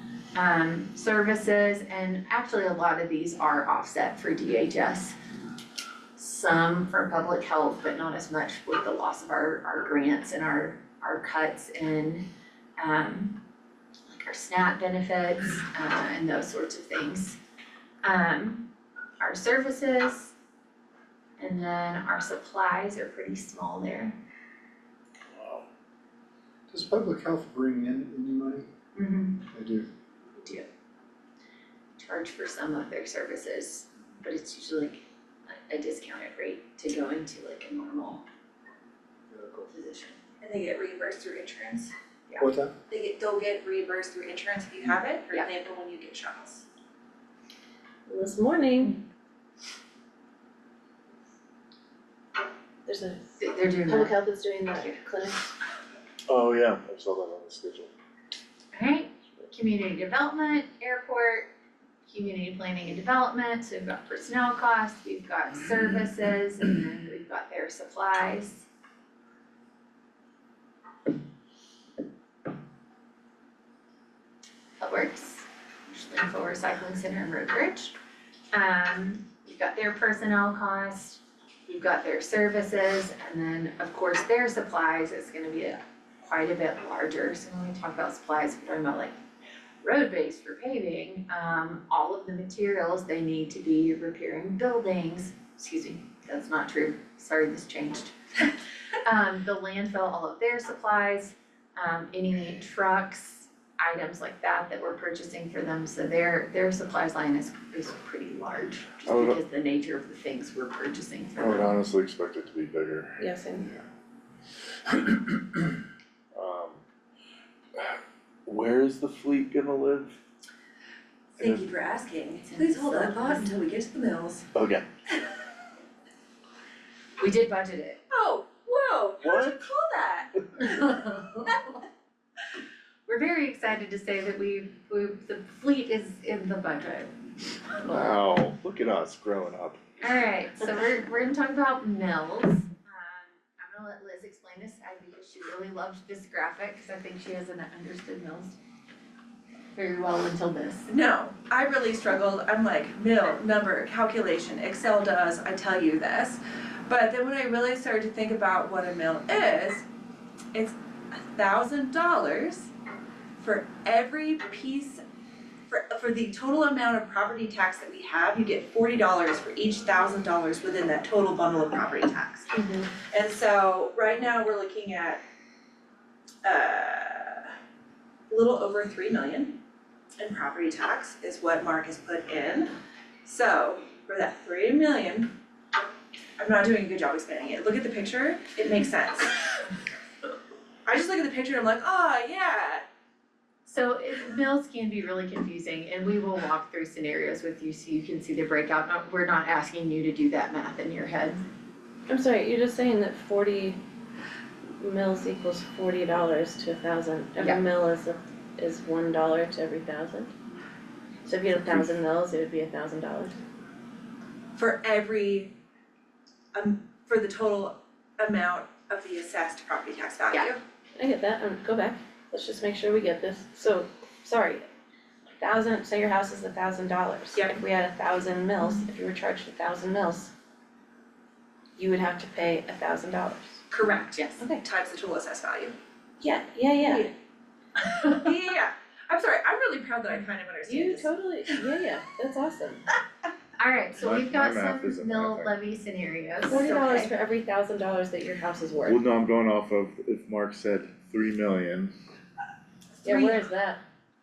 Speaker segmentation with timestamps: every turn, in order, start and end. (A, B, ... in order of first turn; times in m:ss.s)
0:00.3-0:05.2 A
0:06.2-0:12.2 A
0:12.8-0:13.4 A
0:14.1-0:17.4 A
0:18.0-0:18.7 A
0:19.2-0:20.3 A
0:21.4-0:24.2 A
0:26.7-0:28.6 B
0:29.0-0:29.4 A
0:29.5-0:29.8 B
0:30.4-0:30.7 A
0:32.0-0:38.2 A
0:39.3-0:39.6 B
0:39.7-0:40.2 A
0:40.4-0:41.9 C
0:42.4-0:42.7 B
0:42.9-0:46.6 C
0:48.1-0:49.0 D
0:52.8-0:53.3 D
0:53.4-0:54.1 A
0:53.8-0:55.5 D
0:56.3-0:57.9 E
0:58.7-1:01.5 A
1:02.0-1:08.7 A
1:14.8-1:17.9 A
1:18.5-1:29.1 A
1:29.8-1:51.7 A
1:49.1-1:49.4 E
1:51.4-1:53.2 E
1:53.2-1:53.7 D
1:56.3-1:56.8 E
1:57.8-2:00.2 E
2:01.4-2:04.5 C
2:01.4-2:01.6 E
2:02.4-2:03.5 A
2:04.5-2:04.8 E
2:07.2-2:08.0 A
2:08.1-2:11.0 C
2:09.2-2:09.6 E
2:10.8-2:11.3 A
2:11.5-2:11.7 C
2:13.1-2:17.1 A
2:17.8-2:19.8 E
2:20.0-2:28.6 A
2:29.7-2:30.9 A
2:30.9-2:39.8 C
2:40.5-2:42.7 C
2:43.4-2:45.0 C
2:45.7-2:55.2 C
2:52.5-2:52.9 D
2:56.4-2:57.5 C
2:58.3-2:59.6 C
3:00.2-3:02.7 C
3:03.2-3:05.3 C
3:06.4-3:09.7 C
3:10.8-3:12.8 C
3:13.6-3:21.4 A
3:22.1-3:23.8 D
3:24.8-3:30.3 D
3:31.3-3:33.4 D
3:34.6-3:35.6 C
3:36.5-3:40.6 C
3:41.0-3:44.6 D
3:45.4-3:50.3 D
3:51.8-3:53.6 D
3:53.7-3:54.4 A
3:54.6-3:55.7 C
3:56.2-3:57.1 D
3:56.8-3:57.1 C
3:57.9-3:58.2 A
3:58.1-4:01.1 C
4:00.6-4:02.8 D
4:03.6-4:07.1 A
4:04.0-4:05.5 E
4:06.5-4:09.0 D
4:08.8-4:11.9 E
4:13.0-4:13.4 C
4:13.0-4:13.8 D